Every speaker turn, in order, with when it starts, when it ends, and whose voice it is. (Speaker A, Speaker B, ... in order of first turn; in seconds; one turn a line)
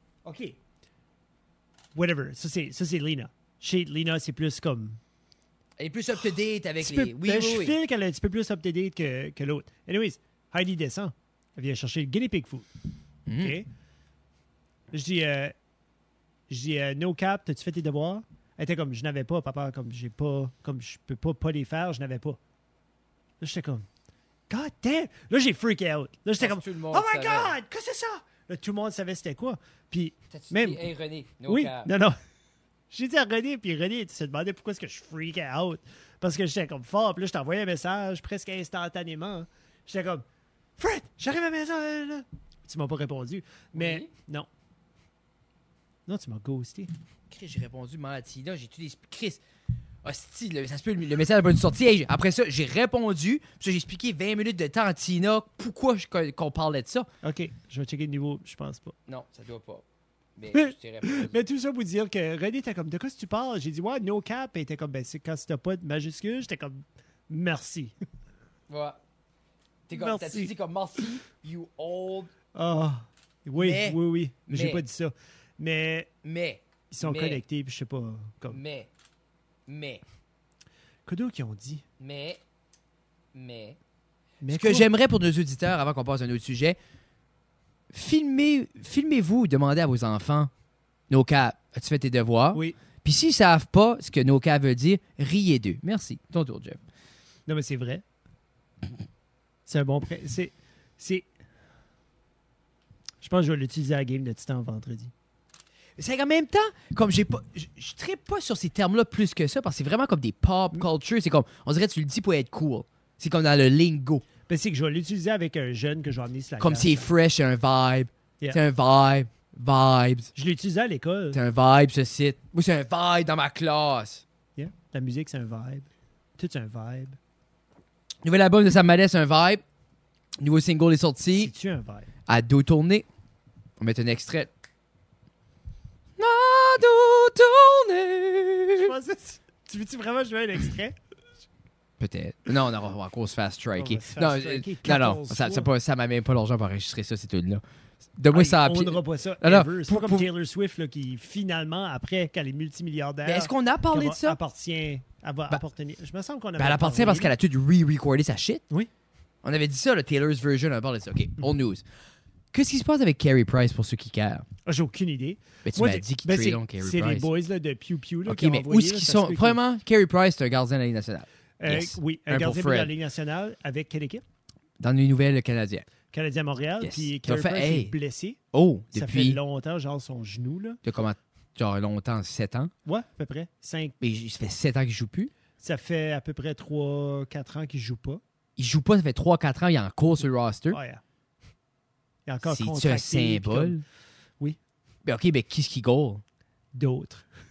Speaker A: 0.2-0.6
Speaker A: 1.9-5.0
Speaker B: 5.8-7.8
Speaker A: 6.8-12.7
Speaker B: 13.3-13.6
Speaker A: 13.4-13.7
Speaker A: 14.9-15.5
Speaker A: 16.5-22.4
Speaker A: 23.4-23.9
Speaker A: 24.5-30.8
Speaker B: 26.4-27.5
Speaker B: 30.3-31.9
Speaker A: 31.4-32.2
Speaker A: 32.9-40.2
Speaker A: 40.8-44.5
Speaker B: 43.7-44.1
Speaker A: 46.1-46.9
Speaker B: 47.3-49.4
Speaker B: 50.0-57.1
Speaker A: 57.2-58.9
Speaker B: 59.1-59.8
Speaker B: 60.4-61.4
Speaker A: 60.5-67.9
Speaker B: 68.7-69.0
Speaker B: 69.9-72.3
Speaker A: 69.9-70.5
Speaker A: 72.5-76.1
Speaker B: 73.6-74.8
Speaker B: 76.2-77.4
Speaker A: 76.9-78.6
Speaker B: 78.5-78.9
Speaker B: 79.7-80.0
Speaker A: 81.1-81.8
Speaker B: 82.0-82.4
Speaker B: 83.3-83.8
Speaker A: 84.4-84.9
Speaker B: 84.5-86.8
Speaker B: 87.9-90.5
Speaker B: 91.1-96.8
Speaker A: 97.5-98.0
Speaker A: 99.7-101.3
Speaker A: 103.2-105.1
Speaker B: 106.0-114.2
Speaker A: 114.5-117.1
Speaker B: 116.6-120.3
Speaker A: 120.3-121.4
Speaker B: 121.3-124.2
Speaker A: 124.5-127.2
Speaker B: 128.2-129.6
Speaker B: 130.4-131.5
Speaker A: 131.3-132.1
Speaker B: 132.3-133.1
Speaker B: 133.8-134.5
Speaker B: 136.2-138.9
Speaker A: 138.7-141.0
Speaker B: 142.0-147.6
Speaker A: 143.8-145.7
Speaker B: 148.2-150.3
Speaker A: 148.3-157.3
Speaker B: 153.2-154.4
Speaker B: 156.6-158.6
Speaker B: 159.4-161.8
Speaker B: 162.5-164.4
Speaker A: 164.7-169.6
Speaker B: 165.6-167.3
Speaker B: 168.2-172.9
Speaker A: 171.6-174.2
Speaker B: 174.8-175.9
Speaker A: 176.1-178.4
Speaker B: 176.8-177.9
Speaker B: 178.5-179.4
Speaker A: 178.9-180.8
Speaker B: 180.8-182.7
Speaker A: 182.8-183.9
Speaker B: 184.0-185.3
Speaker A: 185.6-188.2
Speaker B: 188.6-190.8
Speaker A: 190.7-191.0
Speaker A: 192.3-193.8
Speaker B: 192.4-193.8
Speaker B: 195.0-196.2
Speaker A: 196.7-197.2